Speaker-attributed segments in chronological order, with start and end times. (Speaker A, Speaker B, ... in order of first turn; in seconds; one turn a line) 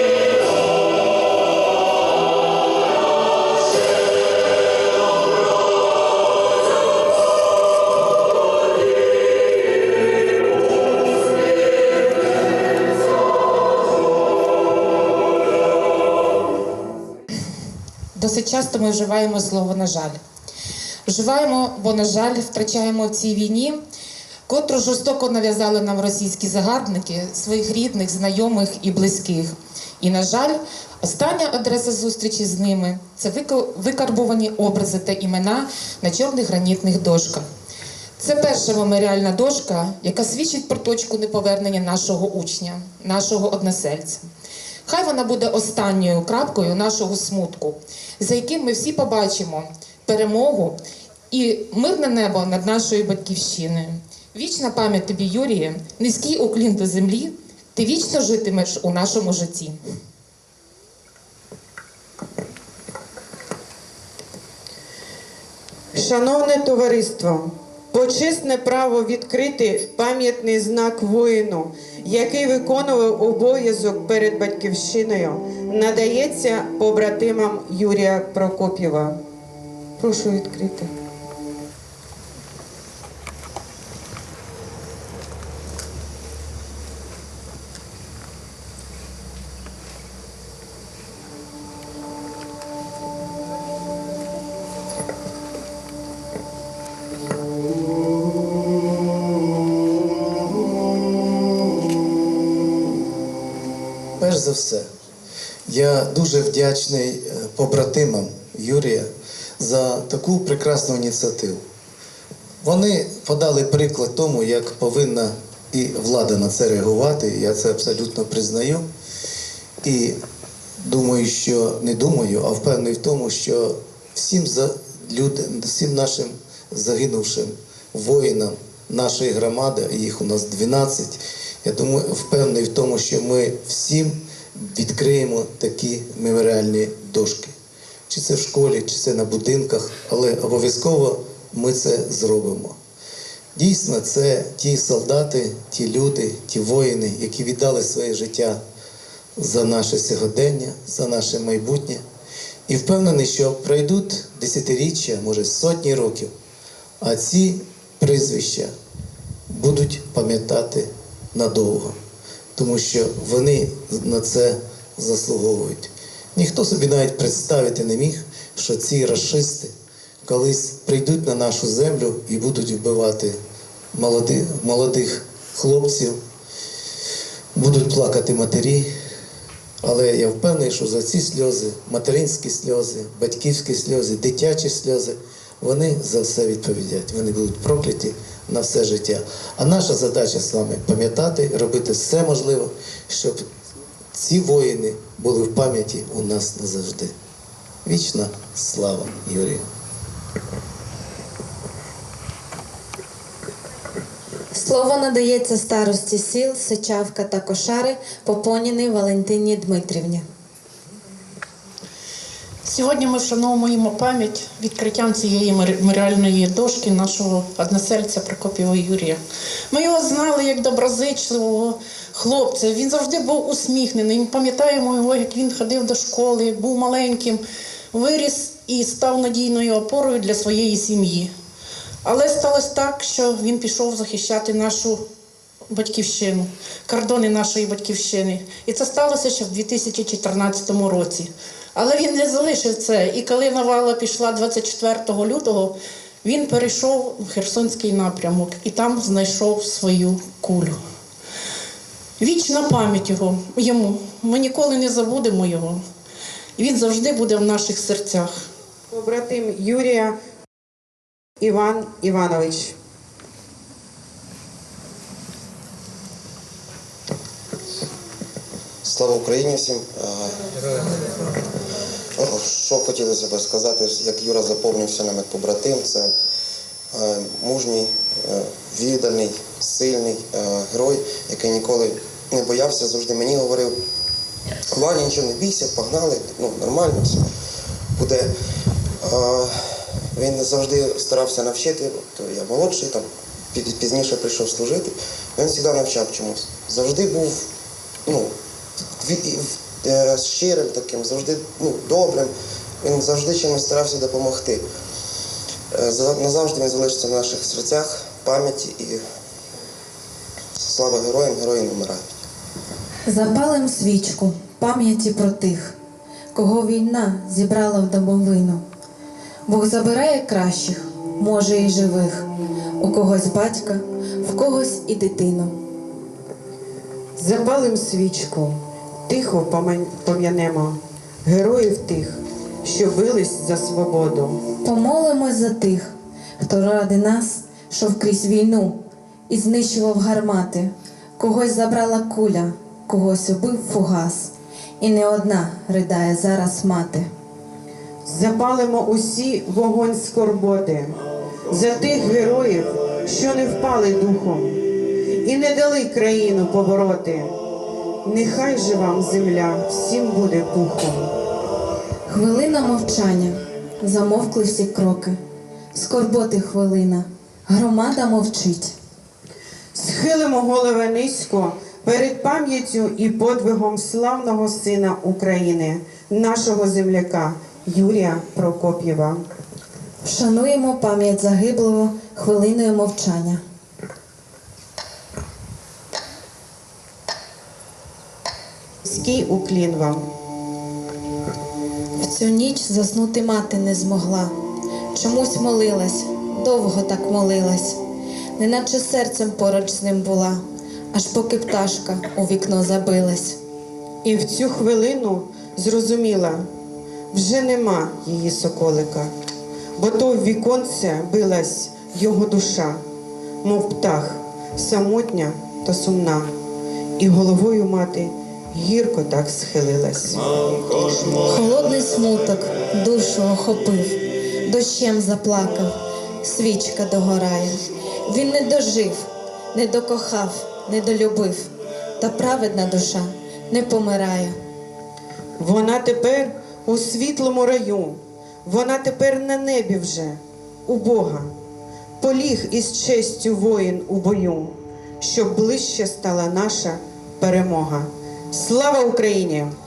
Speaker A: 18.1-20.2
Speaker A: 21.1-23.8
Speaker A: 24.5-37.5
Speaker A: 38.2-44.2
Speaker A: 44.9-50.8
Speaker A: 51.3-59.8
Speaker B: 65.9-79.2
Speaker B: 80.0-80.9
Speaker C: 104.2-104.9
Speaker C: 105.7-111.6
Speaker C: 112.6-118.9
Speaker C: 119.8-120.2
Speaker C: 120.8-137.5
Speaker C: 138.1-142.8
Speaker C: 143.5-148.6
Speaker C: 149.4-152.0
Speaker C: 152.7-156.3
Speaker C: 157.0-158.7
Speaker C: 159.5-162.0
Speaker C: 162.6-169.7
Speaker C: 170.2-173.4
Speaker C: 173.9-176.2
Speaker C: 177.5-178.9
Speaker C: 179.8-193.4
Speaker C: 194.1-197.1
Speaker C: 197.8-199.7
Speaker D: 204.5-210.2
Speaker E: 212.6-219.2
Speaker E: 219.7-227.4
Speaker E: 227.9-231.3
Speaker E: 232.0-235.0
Speaker E: 235.7-250.8
Speaker E: 252.2-255.8
Speaker E: 256.6-258.4
Speaker B: 258.9-260.1
Speaker B: 261.4-262.8
Speaker F: 268.8-270.9
Speaker F: 272.2-276.1
Speaker F: 276.9-283.8
Speaker F: 284.7-287.2
Speaker F: 287.9-288.3
Speaker F: 289.0-297.5
Speaker F: 298.0-298.3
Speaker F: 299.0-304.6
Speaker F: 305.7-309.0
Speaker F: 310.6-312.2
Speaker D: 313.1-315.7
Speaker D: 316.3-318.6
Speaker D: 319.5-322.2
Speaker D: 322.8-325.6
Speaker B: 327.2-334.4
Speaker D: 334.6-338.8
Speaker D: 339.3-347.1
Speaker B: 348.0-351.0
Speaker B: 351.5-357.3
Speaker B: 358.0-361.1
Speaker D: 362.1-365.2
Speaker D: 365.7-368.7
Speaker B: 369.7-379.2
Speaker D: 380.0-383.4
Speaker B: 388.8-390.1
Speaker D: 392.0-394.3
Speaker D: 394.9-397.8
Speaker D: 398.4-400.4
Speaker D: 400.9-403.4
Speaker B: 404.0-406.5
Speaker B: 407.1-409.1
Speaker B: 409.8-412.8
Speaker B: 413.4-416.3
Speaker B: 417.0-420.2
Speaker D: 420.8-434.4
Speaker B: 435.4-441.3
Speaker B: 442.0-449.5